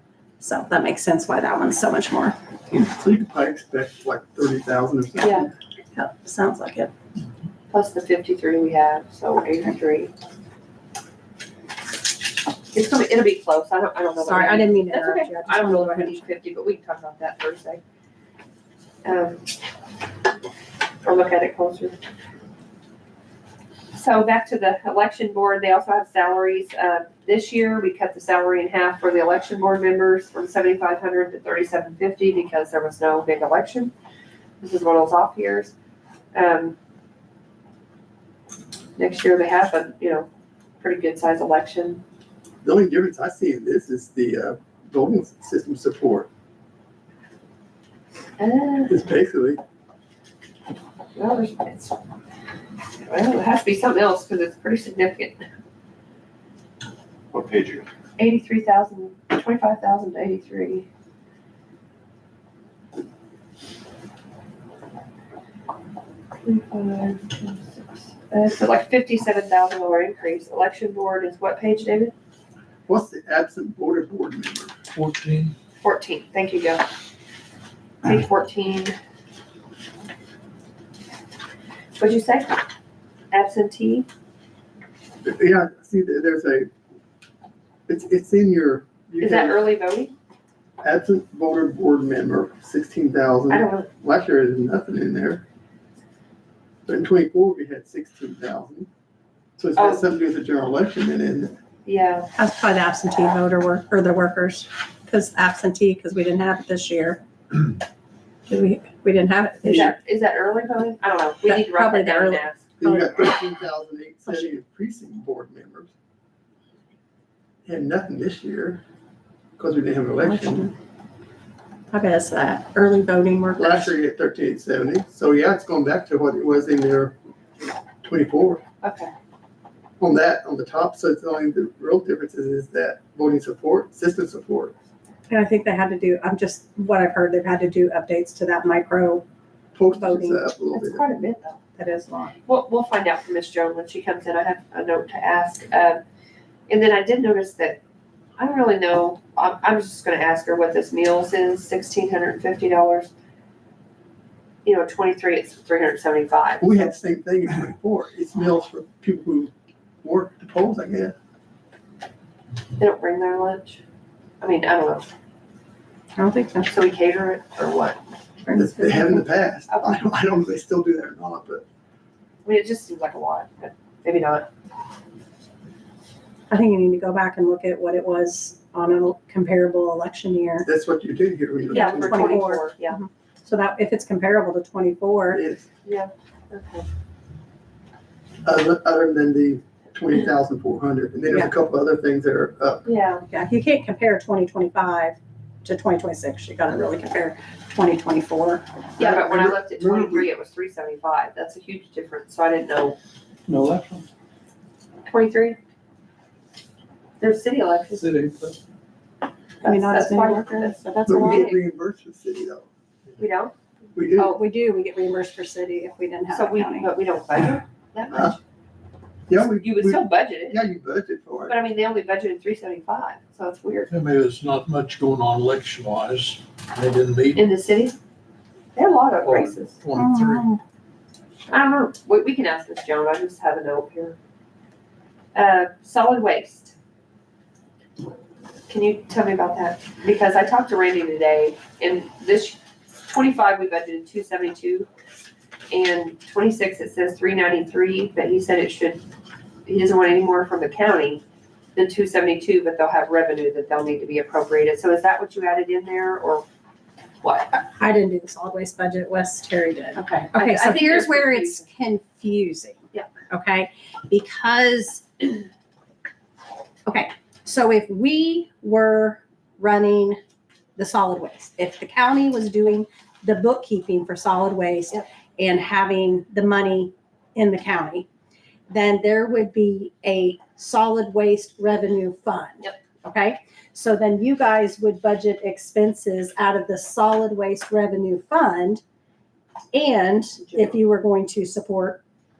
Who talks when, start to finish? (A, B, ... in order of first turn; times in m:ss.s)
0:00.4-0:02.4 A
0:02.7-0:05.5 B
0:05.2-0:05.5 C
0:05.9-0:06.9 A
0:07.7-0:10.1 C
0:12.7-0:17.8 C
0:14.2-0:16.2 A
0:19.0-0:19.5 C
0:21.0-0:22.0 C
0:23.9-0:33.9 C
0:34.6-0:35.7 C
0:36.3-0:36.8 C
0:39.0-0:40.3 C
0:40.8-0:42.0 C
0:42.6-0:46.3 B
0:48.4-0:48.9 C
0:48.9-0:49.6 B
0:51.2-0:52.0 C
0:53.0-0:55.4 C
0:57.3-0:57.8 D
0:58.2-1:00.9 C
1:06.4-1:12.1 C
1:12.9-1:14.8 B
1:14.9-1:15.5 D
1:15.8-1:16.8 C
1:18.0-1:19.0 C
1:22.0-1:22.6 C
1:23.3-1:24.1 C
1:25.2-1:26.7 B
1:27.9-1:29.6 B
1:29.2-1:30.1 C
1:30.8-1:35.4 B
1:33.5-1:33.9 C
1:36.8-1:38.9 B
1:39.6-1:41.5 B
1:39.8-1:40.0 C
1:41.8-1:42.3 C
1:42.4-1:47.2 A
1:48.5-1:49.9 A
1:49.6-1:52.7 C
1:51.5-1:53.4 A
1:52.8-1:55.9 B
1:57.6-1:58.8 B
1:59.6-2:00.7 B
2:00.2-2:00.7 A
2:01.9-2:03.9 A
2:03.6-2:07.2 B
2:08.0-2:08.6 B
2:08.8-2:09.1 C
2:10.0-2:14.7 B
2:15.3-2:19.2 A
2:19.7-2:21.0 B
2:19.9-2:20.5 A
2:20.7-2:21.6 C
2:21.8-2:22.4 A
2:22.4-2:26.0 C
2:26.7-2:27.8 C
2:28.4-2:33.1 C
2:34.6-2:36.9 C
2:36.6-2:41.1 B
2:42.8-2:43.8 C
2:44.4-2:45.1 C
2:46.2-2:46.7 A
2:46.6-2:48.0 C
2:48.4-2:49.2 A
2:48.5-2:51.6 B
2:49.7-2:50.0 C
2:52.4-2:54.5 C
2:56.5-3:00.7 A
3:00.6-3:02.6 B
3:01.7-3:03.0 C
3:01.7-3:05.4 A
3:05.3-3:05.6 B
3:05.8-3:06.8 C
3:08.4-3:12.8 B
3:12.8-3:13.2 C
3:13.3-3:18.6 A
3:19.0-3:20.3 B
3:19.0-3:23.0 C
3:23.5-3:24.1 D
3:25.0-3:25.6 C
3:27.2-3:28.1 C
3:28.0-3:28.6 D
3:29.6-3:31.6 C
3:29.6-3:31.4 A
3:31.1-3:32.7 B
3:33.2-3:33.5 C
3:33.9-3:34.3 B
3:34.2-3:36.9 A
3:36.3-3:38.4 C
3:39.3-3:41.6 B
3:39.4-3:40.6 C
3:41.5-3:43.9 C
3:43.9-3:47.4 D
3:47.3-3:48.0 C
3:48.7-3:49.8 C
3:49.2-3:50.4 D
3:50.0-3:50.6 A
3:51.5-3:54.2 C
3:55.3-3:56.7 C
3:58.7-4:04.9 C
4:05.7-4:09.0 C
4:09.6-4:11.2 C
4:11.8-4:16.4 C
4:17.2-4:17.5 C
4:17.8-4:25.4 A
4:20.0-4:21.6 C
4:26.8-4:30.2 A
4:30.8-4:38.1 A
4:38.7-4:48.8 A
4:49.7-4:52.0 A
4:50.5-4:50.8 C